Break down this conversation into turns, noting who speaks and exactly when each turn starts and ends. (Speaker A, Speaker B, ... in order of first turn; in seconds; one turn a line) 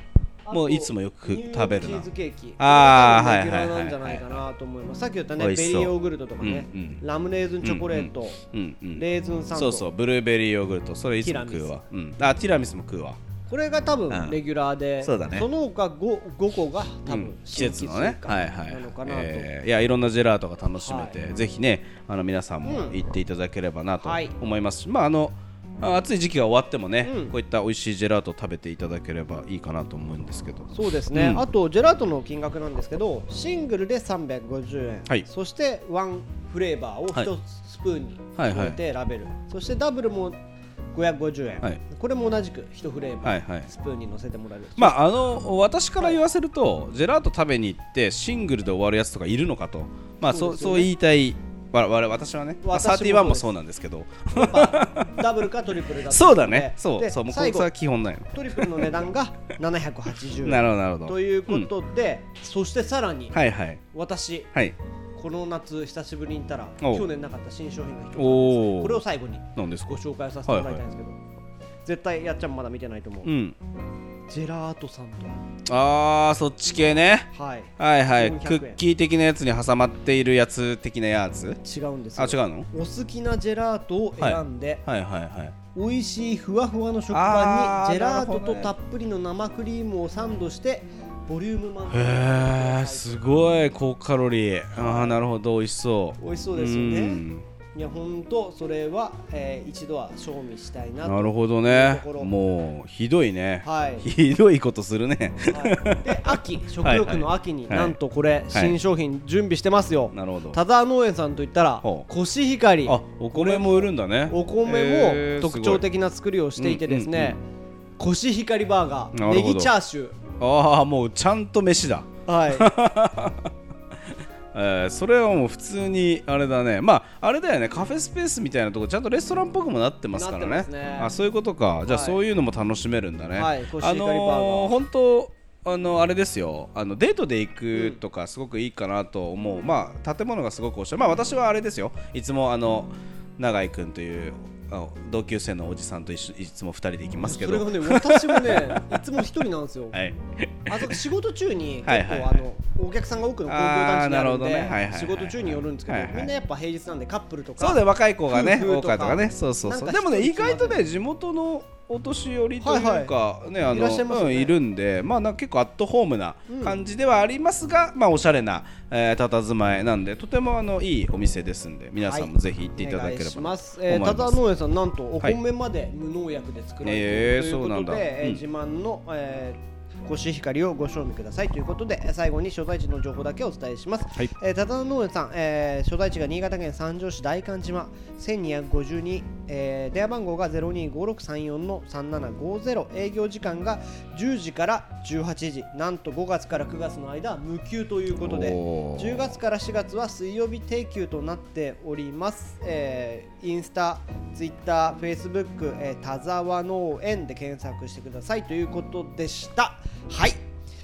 Speaker A: 0.4-8.4
Speaker B: 0.5-2.1
Speaker B: 2.6-4.4
Speaker B: 5.4-7.0
Speaker B: 7.6-13.2
Speaker A: 8.9-9.8
Speaker A: 11.2-11.8
Speaker A: 13.5-19.5
Speaker B: 14.1-14.4
Speaker B: 15.0-15.5
Speaker B: 17.1-31.4
Speaker A: 20.8-21.2
Speaker A: 22.6-23.0
Speaker A: 24.0-24.4
Speaker A: 27.0-27.3
Speaker A: 30.7-40.4
Speaker B: 38.4-38.8
Speaker A: 40.9-45.0
Speaker B: 43.2-43.7
Speaker B: 44.8-55.2
Speaker A: 50.3-50.9
Speaker A: 52.6-53.5
Speaker A: 54.3-57.7
Speaker B: 56.1-58.9
Speaker A: 58.3-63.4
Speaker B: 60.4-61.7
Speaker B: 63.3-63.8
Speaker A: 63.9-64.5
Speaker A: 65.2-71.2
Speaker B: 66.8-67.0
Speaker B: 68.2-69.0
Speaker B: 69.5-70.8
Speaker A: 71.8-73.3
Speaker B: 73.2-73.5
Speaker A: 74.3-75.4
Speaker B: 75.7-81.6
Speaker A: 77.3-78.8
Speaker A: 81.6-84.8
Speaker B: 82.2-82.7
Speaker B: 84.2-85.5
Speaker A: 85.7-93.2
Speaker B: 87.1-88.7
Speaker B: 91.9-97.5
Speaker A: 94.7-95.2
Speaker A: 96.2-97.2
Speaker A: 97.7-102.3
Speaker B: 101.0-108.0
Speaker A: 103.6-104.1
Speaker A: 105.5-117.4
Speaker B: 110.1-110.6
Speaker B: 112.8-115.8
Speaker B: 116.6-117.3
Speaker A: 118.0-120.2
Speaker B: 119.1-119.7
Speaker B: 120.4-123.5
Speaker A: 122.3-122.7
Speaker B: 124.5-149.0
Speaker A: 130.1-131.1
Speaker A: 131.9-132.2
Speaker A: 133.3-134.7
Speaker A: 137.7-138.0
Speaker A: 147.2-150.0
Speaker B: 149.9-151.0
Speaker A: 150.7-160.9
Speaker B: 151.8-152.4
Speaker B: 153.4-156.3
Speaker B: 157.6-174.4
Speaker A: 162.6-163.1
Speaker A: 163.7-164.5
Speaker A: 166.5-166.8
Speaker A: 172.0-210.4
Speaker B: 176.8-178.4
Speaker B: 198.2-199.4